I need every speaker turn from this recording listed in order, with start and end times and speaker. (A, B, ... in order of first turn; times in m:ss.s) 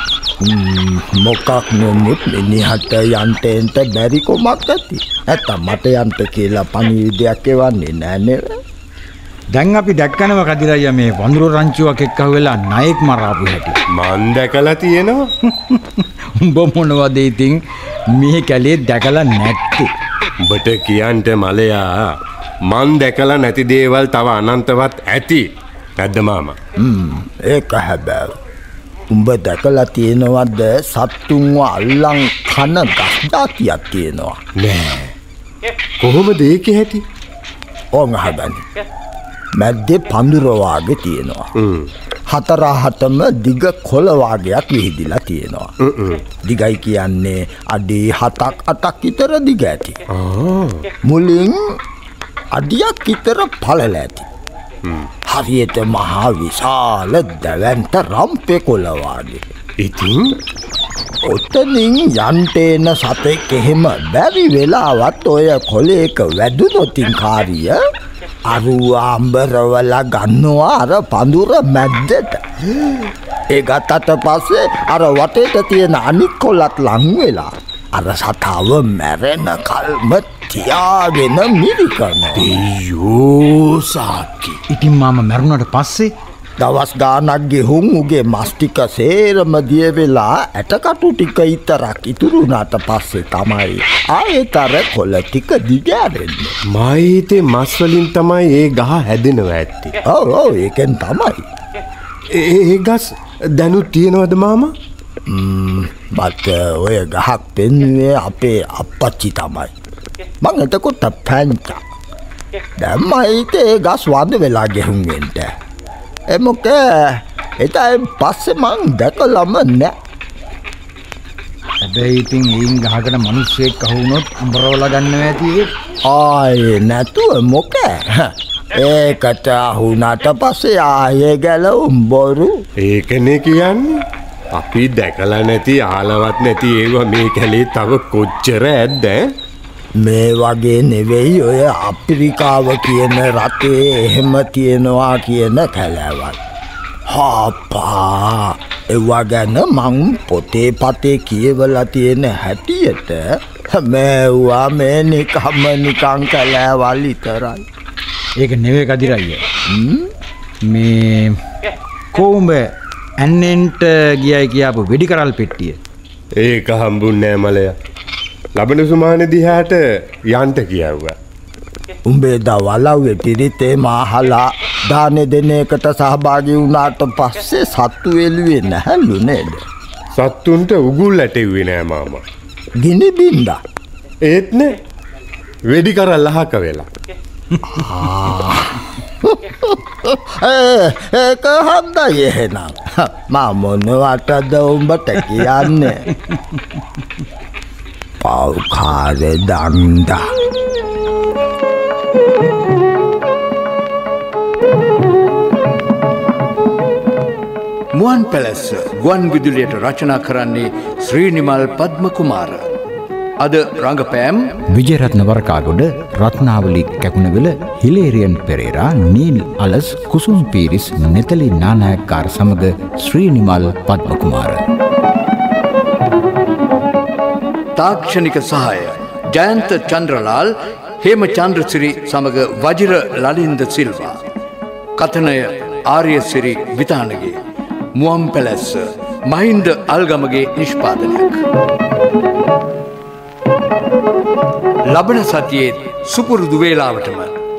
0:00.4-0:08.5 A
0:09.5-0:13.8 B
0:13.9-0:15.3 C
0:15.5-0:17.6 B
0:18.1-0:19.9 B
0:20.4-0:22.0 C
0:22.7-0:25.4 C
0:26.0-0:26.6 C
0:26.8-0:28.4 A
0:29.1-0:34.4 A
0:34.6-0:35.1 C
0:36.0-0:37.0 C
0:37.9-0:38.6 A
0:39.6-0:41.5 A
0:41.6-0:41.9 C
0:42.3-0:45.7 A
0:45.8-0:46.2 C
0:46.4-0:50.0 A
0:50.1-0:50.8 C
0:51.0-0:51.7 A
0:52.5-0:54.3 A
0:55.3-0:59.4 A
0:59.8-1:00.3 C
1:01.2-1:07.8 A
1:08.5-1:12.4 A
1:13.5-1:22.5 A
1:22.3-1:24.6 C
1:24.7-1:26.1 B
1:26.6-1:36.6 A
1:36.7-1:39.9 C
1:40.1-1:41.4 A
1:42.3-1:44.7 C
1:45.3-1:49.7 A
1:50.4-1:51.8 A
1:52.8-1:55.5 A
1:56.3-1:59.9 A
2:01.8-2:05.7 B
2:06.0-2:12.5 A
2:12.8-2:14.0 C
2:14.6-2:19.3 C
2:20.0-2:26.4 A
2:27.1-2:37.6 A
2:38.4-2:39.4 B
2:39.7-2:40.1 A
2:40.7-2:41.4 B
2:42.1-2:45.8 B
2:46.4-2:47.7 C
2:48.6-2:51.1 C
2:52.0-2:59.6 A
3:00.2-3:02.2 C
3:02.8-3:03.6 A
3:04.3-3:04.7 C
3:05.7-3:06.9 C
3:07.6-3:16.1 A
3:18.2-3:20.2 A
3:27.9-3:32.6 D
3:33.4-3:34.6 D
3:34.7-3:44.6 B
3:47.8-3:54.2 D
3:55.0-3:57.4 D
3:58.0-4:01.4 D
4:04.9-4:07.3 D